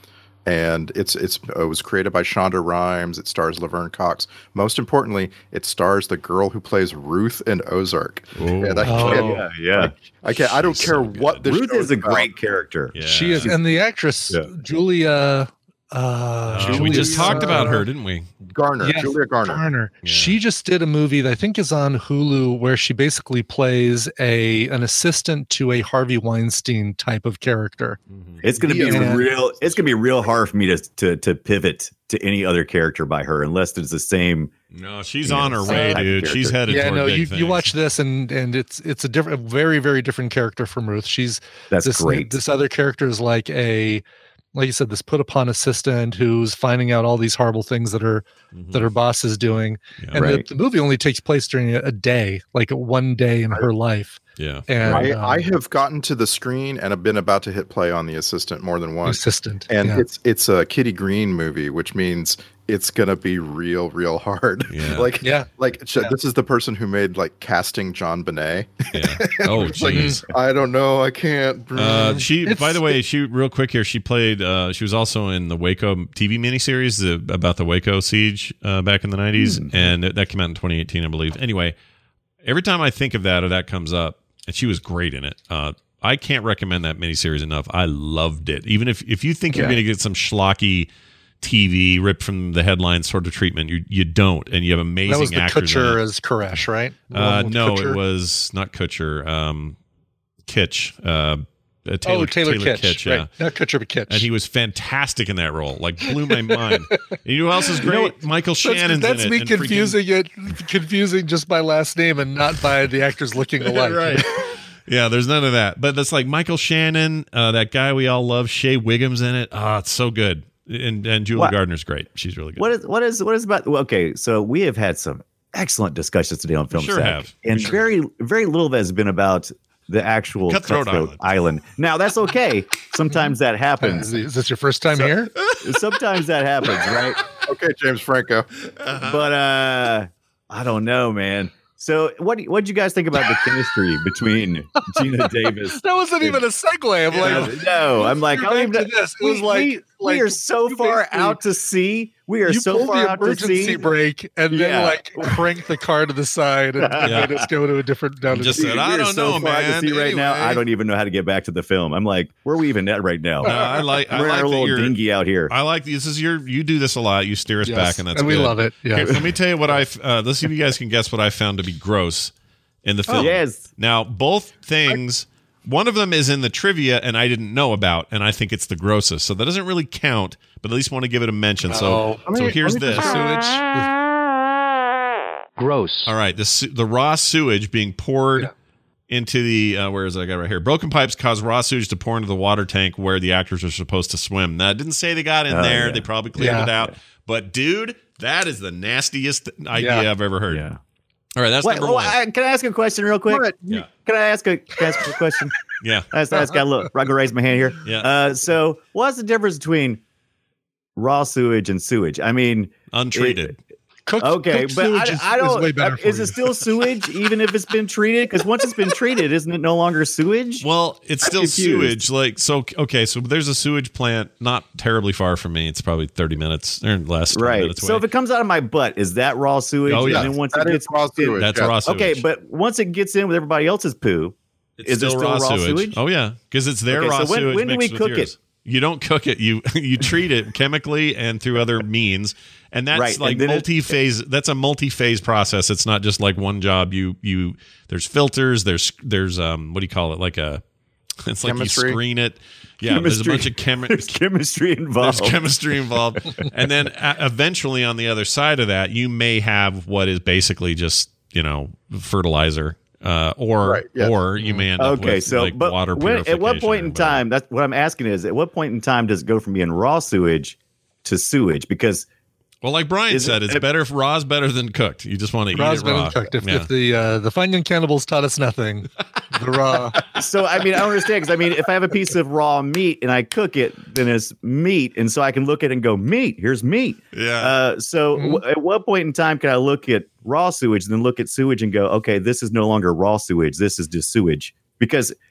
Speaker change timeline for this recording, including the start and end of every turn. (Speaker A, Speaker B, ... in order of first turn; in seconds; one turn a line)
Speaker A: 0.5-12.3
Speaker B: 8.4-9.1
Speaker C: 8.8-9.4
Speaker D: 8.9-9.9
Speaker B: 10.6-11.4
Speaker D: 11.1-13.5
Speaker B: 12.9-13.5
Speaker C: 13.0-17.9
Speaker B: 16.5-18.3
Speaker A: 16.6-17.8
Speaker A: 18.5-19.6
Speaker C: 18.8-28.0
Speaker B: 20.0-20.4
Speaker B: 28.1-28.4
Speaker D: 28.4-34.5
Speaker A: 28.6-29.7
Speaker C: 28.6-29.3
Speaker B: 34.7-37.7
Speaker D: 35.2-36.6
Speaker C: 35.7-36.0
Speaker C: 36.7-44.0
Speaker D: 41.7-42.4
Speaker C: 44.5-55.5
Speaker B: 48.5-48.9
Speaker D: 50.1-50.5
Speaker B: 54.4-55.0
Speaker A: 54.9-72.2
Speaker C: 59.0-60.0
Speaker B: 64.7-65.1
Speaker C: 65.2-66.1
Speaker B: 68.9-70.2
Speaker C: 69.9-70.2
Speaker B: 71.8-81.8
Speaker C: 72.4-73.0
Speaker D: 79.4-79.7
Speaker B: 82.4-90.9
Speaker D: 89.5-89.8
Speaker B: 91.4-96.0
Speaker C: 95.1-98.0
Speaker B: 97.1-99.8
Speaker B: 100.5-103.3
Speaker C: 102.0-104.3
Speaker B: 104.1-110.0
Speaker D: 107.8-108.2
Speaker C: 108.6-114.3
Speaker B: 113.6-122.7
Speaker D: 122.6-134.1
Speaker B: 126.7-127.8
Speaker B: 130.5-131.2
Speaker C: 133.8-135.3
Speaker B: 135.4-135.7
Speaker D: 135.6-137.2
Speaker A: 137.5-138.5
Speaker B: 138.8-139.2
Speaker D: 139.0-146.4
Speaker C: 144.8-151.4
Speaker B: 147.1-147.5
Speaker D: 147.2-153.8
Speaker C: 152.5-158.7
Speaker D: 154.5-155.4
Speaker D: 156.8-157.3
Speaker B: 157.0-157.4
Speaker B: 158.3-160.6
Speaker D: 158.6-165.5
Speaker B: 163.4-165.0
Speaker B: 165.5-172.3
Speaker C: 167.7-169.2
Speaker B: 172.8-183.2
Speaker D: 173.1-173.7
Speaker C: 181.7-182.3
Speaker A: 182.3-183.2
Speaker C: 182.8-183.9
Speaker C: 185.8-186.1
Speaker B: 186.1-188.5
Speaker B: 189.1-200.7
Speaker D: 195.5-196.1
Speaker C: 196.4-196.7
Speaker C: 199.8-200.1
Speaker D: 200.5-200.8
Speaker B: 201.4-202.2
Speaker D: 201.6-205.6
Speaker A: 203.3-203.8
Speaker B: 205.8-206.1
Speaker D: 206.1-210.0
Speaker D: 211.0-213.5
Speaker B: 212.9-213.6
Speaker C: 214.1-216.6
Speaker D: 214.2-220.7
Speaker B: 220.6-228.0
Speaker D: 221.2-222.0
Speaker D: 227.3-236.0
Speaker B: 229.9-230.3
Speaker A: 230.0-231.8
Speaker B: 231.4-232.2
Speaker B: 234.8-250.6
Speaker D: 236.9-238.3
Speaker D: 242.9-243.7
Speaker B: 251.2-254.1
Speaker A: 251.4-252.0
Speaker D: 252.8-255.4
Speaker B: 255.0-267.2
Speaker A: 263.6-264.1
Speaker D: 264.8-272.1
Speaker B: 272.6-276.7
Speaker D: 273.1-273.6
Speaker C: 275.5-280.0
Speaker D: 280.0-295.1
Speaker B: 287.1-287.5
Speaker C: 288.2-288.4